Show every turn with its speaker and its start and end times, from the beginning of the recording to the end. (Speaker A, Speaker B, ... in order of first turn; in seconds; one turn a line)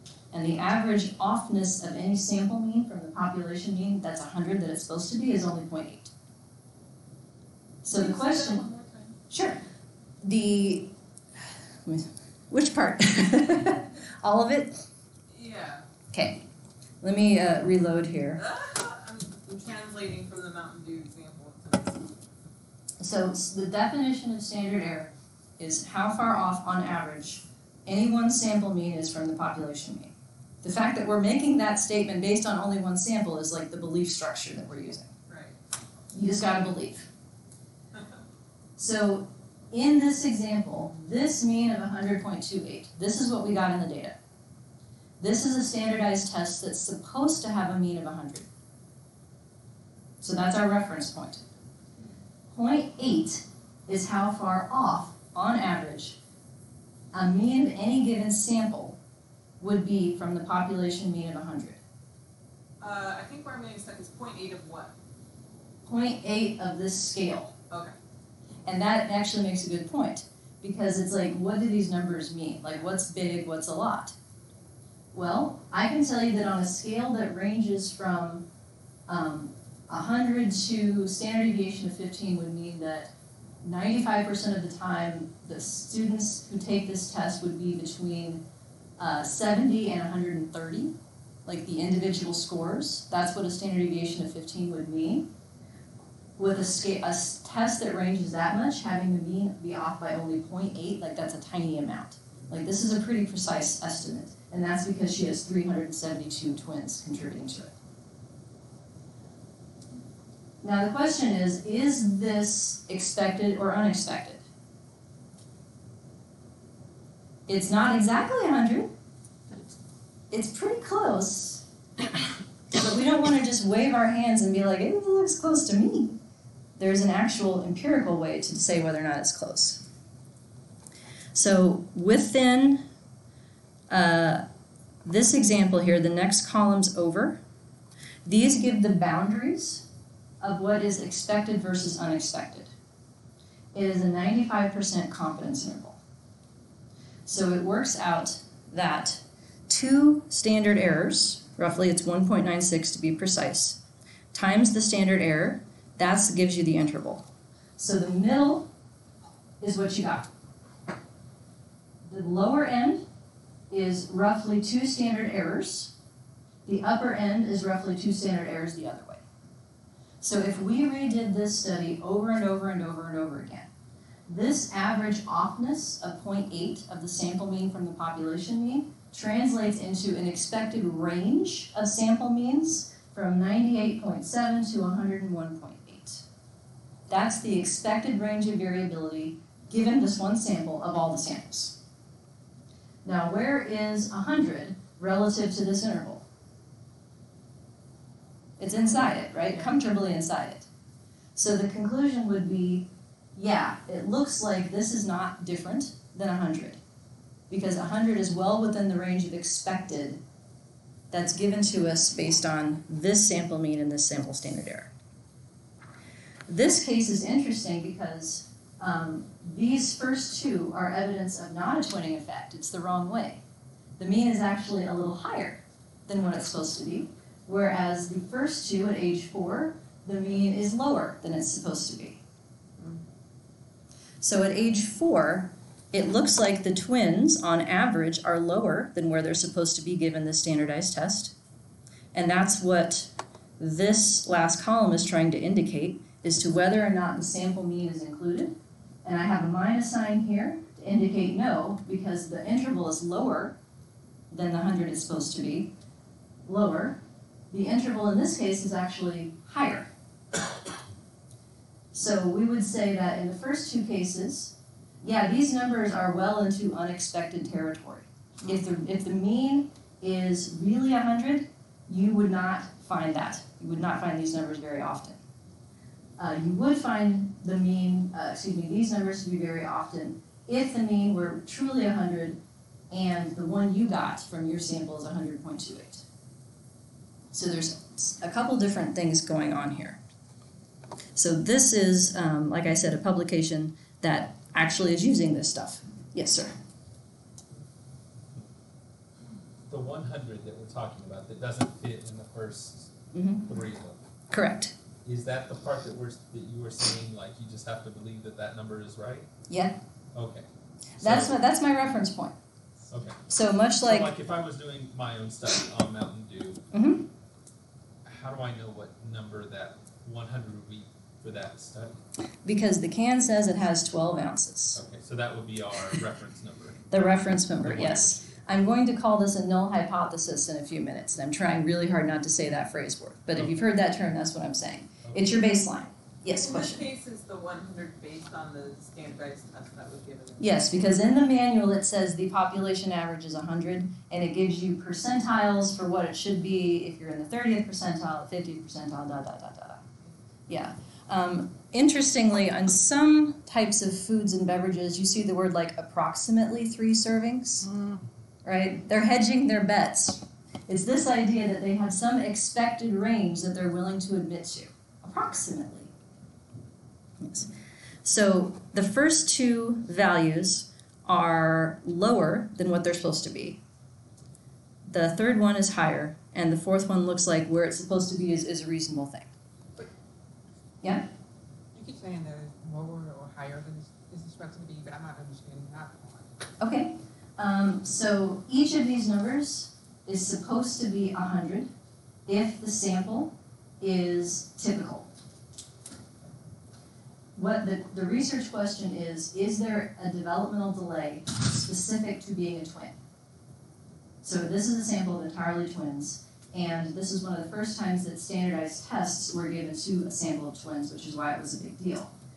Speaker A: 0.3-6.1
Speaker A: 7.8-8.7
Speaker B: 7.9-9.2
Speaker A: 9.3-9.6
Speaker A: 10.2-10.9
Speaker A: 11.9-14.9
Speaker B: 15.3-15.9
Speaker A: 16.1-16.4
Speaker A: 17.0-18.4
Speaker B: 18.4-22.1
Speaker A: 23.0-35.1
Speaker B: 35.3-35.6
Speaker A: 36.1-37.1
Speaker A: 38.8-44.1
Speaker A: 45.2-48.5
Speaker A: 50.2-51.4
Speaker A: 52.5-56.2
Speaker A: 57.1-59.0
Speaker A: 59.6-61.8
Speaker B: 62.8-64.9
Speaker A: 65.9-67.5
Speaker A: 68.7-74.2
Speaker A: 75.1-78.5
Speaker A: 79.1-88.4
Speaker A: 89.0-90.9
Speaker A: 91.5-95.3
Speaker A: 96.4-107.7
Speaker A: 110.6-114.4
Speaker A: 117.5-118.9
Speaker A: 120.3-121.7
Speaker A: 122.7-126.2
Speaker A: 126.8-129.8
Speaker A: 131.3-132.9
Speaker A: 133.9-134.5
Speaker A: 135.0-137.4
Speaker A: 138.2-139.9
Speaker A: 140.4-142.7
Speaker A: 143.7-146.0
Speaker A: 147.2-153.8
Speaker A: 154.3-157.2
Speaker A: 157.8-158.7
Speaker A: 159.6-160.3
Speaker A: 162.1-163.0
Speaker A: 163.7-165.9
Speaker A: 166.7-169.2
Speaker A: 170.2-173.7
Speaker A: 174.3-186.2
Speaker A: 187.1-191.8
Speaker A: 193.0-196.2
Speaker A: 198.6-200.7
Speaker A: 201.4-206.8
Speaker A: 207.5-210.2
Speaker A: 211.1-214.9
Speaker A: 216.5-223.4
Speaker A: 224.0-232.2
Speaker A: 234.2-241.3
Speaker A: 242.1-253.6
Speaker A: 254.3-255.7
Speaker A: 256.5-257.0
Speaker A: 257.5-259.9
Speaker A: 261.9-275.2
Speaker A: 276.2-282.4
Speaker A: 282.9-286.0
Speaker A: 287.3-290.0
Speaker A: 291.1-296.5
Speaker C: 299.7-304.0
Speaker A: 303.1-303.5
Speaker A: 304.3-304.7
Speaker C: 305.0-309.3
Speaker A: 309.5-309.8
Speaker C: 310.1-310.5
Speaker C: 311.0-311.3
Speaker A: 311.0-312.4
Speaker C: 312.9-313.2
Speaker A: 313.3-314.1
Speaker C: 313.8-316.6
Speaker A: 316.7-317.1
Speaker C: 318.0-322.0
Speaker A: 322.4-324.8
Speaker C: 324.8-326.9
Speaker A: 326.9-336.8
Speaker C: 327.6-328.4
Speaker B: 336.3-340.4
Speaker A: 340.4-349.8
Speaker A: 350.5-357.7
Speaker A: 358.4-365.9
Speaker A: 367.2-367.5
Speaker A: 368.0-373.6
Speaker A: 374.9-379.3
Speaker A: 380.8-381.1
Speaker D: 381.7-386.3
Speaker A: 386.6-391.7
Speaker A: 392.3-395.1
Speaker A: 397.4-403.0
Speaker A: 404.2-412.1